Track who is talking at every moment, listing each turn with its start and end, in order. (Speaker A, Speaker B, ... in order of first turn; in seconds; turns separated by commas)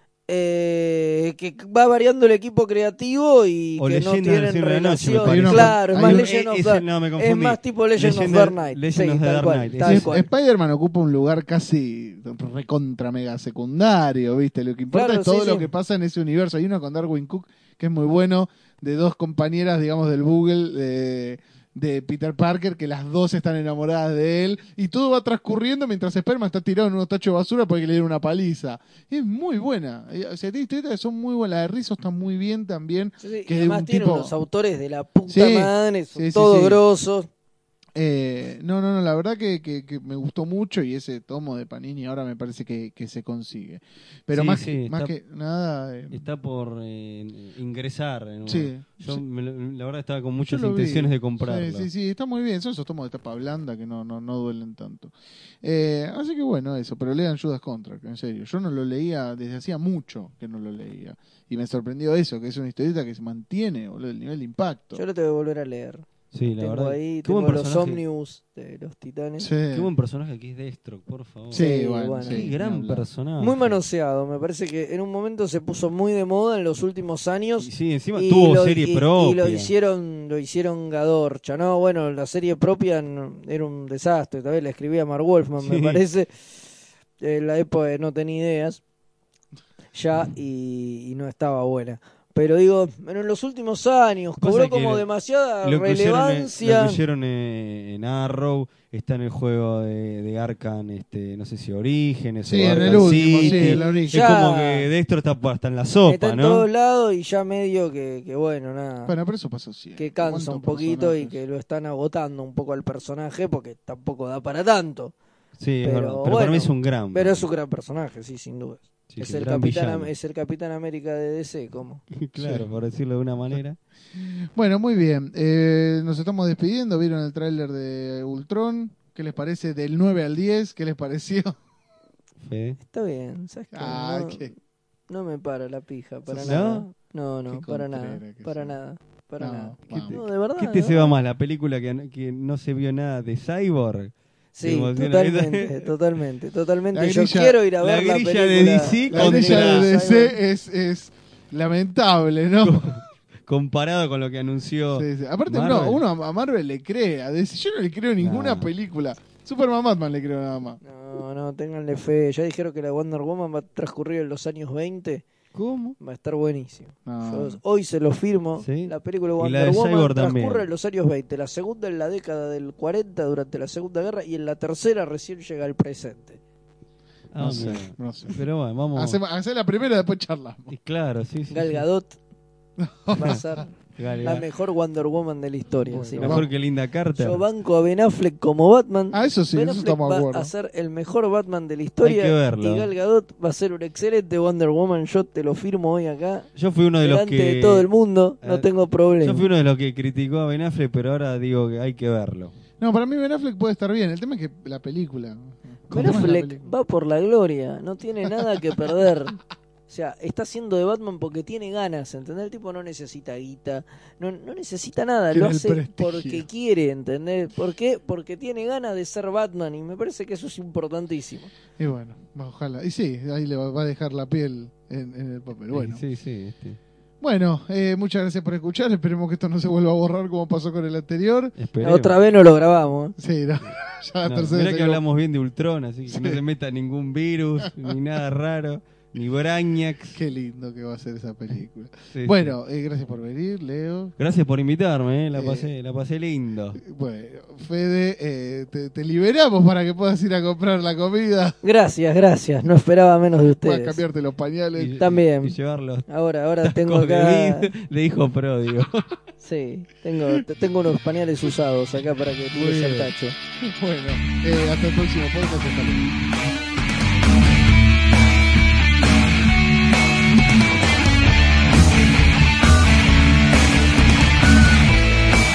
Speaker A: 0.3-10.3, Speaker B: 3.8-10.1, Speaker C: 5.2-6.2, Speaker C: 9.8-34.3, Speaker A: 14.9-15.7, Speaker A: 33.2-37.3, Speaker C: 35.3-36.8, Speaker C: 37.9-46.3, Speaker B: 44.3-45.1, Speaker B: 46.1-51.9, Speaker C: 48.5-49.2, Speaker C: 50.4-65.0, Speaker A: 64.9-69.5, Speaker B: 66.3-68.0, Speaker C: 69.4-69.9, Speaker B: 69.7-71.7, Speaker C: 71.5-73.0, Speaker A: 71.5-72.5, Speaker B: 72.2-73.8, Speaker A: 73.4-86.6, Speaker B: 77.6-79.7, Speaker B: 85.6-86.0, Speaker A: 87.2-88.8, Speaker A: 89.9-97.0, Speaker B: 94.4-95.0, Speaker B: 95.6-106.7, Speaker C: 102.4-104.3, Speaker A: 102.7-104.9, Speaker A: 106.0-109.1, Speaker C: 109.0-111.4, Speaker A: 110.0-115.1, Speaker B: 115.6-117.5, Speaker A: 115.8-122.0, Speaker B: 119.1-120.1, Speaker B: 122.1-123.8, Speaker C: 122.3-122.7, Speaker C: 124.1-131.6, Speaker B: 132.4-132.8, Speaker A: 132.8-134.5, Speaker C: 133.7-134.5, Speaker A: 135.1-141.1, Speaker C: 136.3-136.7, Speaker B: 136.4-136.9, Speaker C: 137.5-138.8, Speaker C: 139.4-140.2, Speaker B: 139.9-145.9, Speaker A: 144.5-150.3, Speaker C: 146.9-147.6, Speaker B: 147.8-149.9, Speaker C: 149.1-153.0, Speaker B: 152.6-156.0, Speaker C: 154.9-160.8, Speaker B: 158.2-158.7, Speaker A: 160.8-165.2, Speaker B: 165.5-166.0, Speaker A: 166.0-176.4, Speaker C: 167.1-167.6, Speaker B: 168.6-170.7, Speaker B: 177.3-179.2, Speaker C: 177.4-178.4, Speaker C: 178.9-180.7, Speaker B: 180.7-181.8, Speaker A: 181.5-182.2, Speaker C: 182.8-183.7, Speaker A: 183.1-183.7, Speaker B: 183.9-184.4, Speaker A: 184.2-186.4, Speaker C: 185.8-186.5, Speaker B: 186.2-187.4, Speaker A: 187.1-196.5, Speaker C: 189.1-190.5, Speaker B: 192.0-192.9, Speaker B: 196.6-197.9, Speaker A: 197.0-199.4, Speaker B: 198.4-198.7, Speaker B: 199.2-202.5, Speaker C: 202.8-206.7, Speaker B: 205.9-206.3, Speaker A: 205.9-221.5, Speaker C: 208.2-208.5, Speaker C: 215.3-216.4, Speaker C: 221.8-226.0, Speaker B: 225.7-226.8, Speaker C: 227.2-231.5, Speaker B: 231.6-232.2, Speaker A: 231.8-233.1, Speaker C: 233.2-235.0, Speaker B: 234.2-240.2, Speaker C: 236.1-236.4, Speaker C: 237.7-238.0, Speaker C: 240.1-244.1, Speaker B: 242.1-242.5, Speaker B: 244.2-246.8, Speaker C: 245.3-245.7, Speaker C: 246.8-251.6, Speaker A: 251.6-254.0, Speaker C: 253.5-255.1, Speaker B: 254.7-256.1, Speaker A: 255.0-255.6, Speaker A: 256.1-257.7, Speaker B: 256.6-259.2, Speaker A: 259.4-263.3, Speaker C: 262.5-266.2